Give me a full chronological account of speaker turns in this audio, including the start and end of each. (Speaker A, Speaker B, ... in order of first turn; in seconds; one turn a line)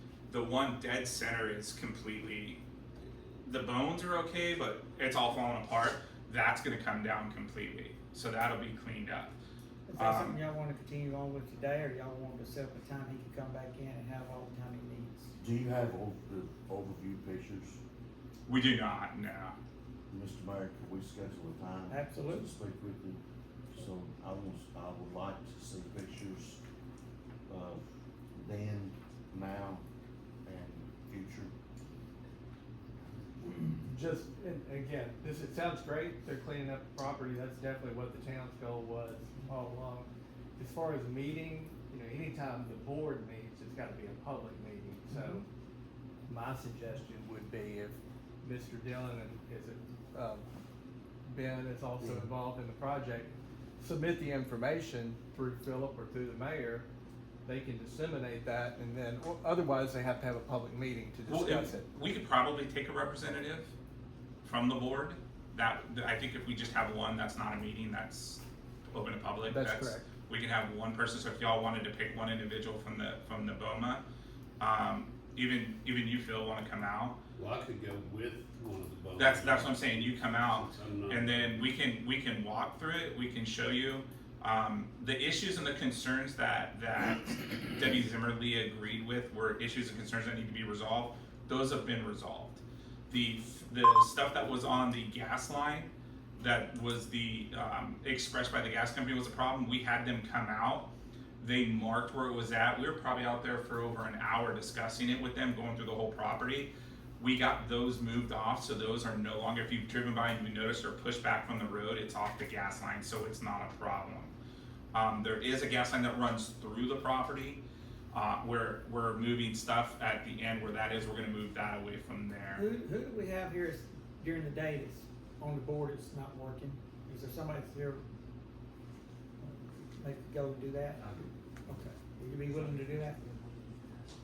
Speaker A: 0.3-2.6
Speaker A: 3.4-9.3
Speaker B: 9.9-15.3
Speaker A: 9.9-10.4
Speaker C: 15.4-17.8
Speaker A: 18.5-19.5
Speaker C: 20.1-26.6
Speaker B: 21.9-22.5
Speaker C: 27.5-27.8
Speaker C: 28.3-29.8
Speaker C: 30.4-31.5
Speaker D: 33.9-45.5
Speaker B: 45.1-45.4
Speaker D: 46.3-50.5
Speaker D: 51.3-56.9
Speaker D: 57.5-61.9
Speaker A: 61.2-63.7
Speaker A: 64.4-74.0
Speaker D: 69.5-70.0
Speaker A: 74.6-77.2
Speaker E: 77.4-81.6
Speaker A: 79.2-100.9
Speaker A: 101.4-114.3
Speaker A: 114.9-117.6
Speaker A: 118.1-122.6
Speaker B: 122.5-128.0
Speaker B: 129.4-131.0
Speaker B: 131.6-133.2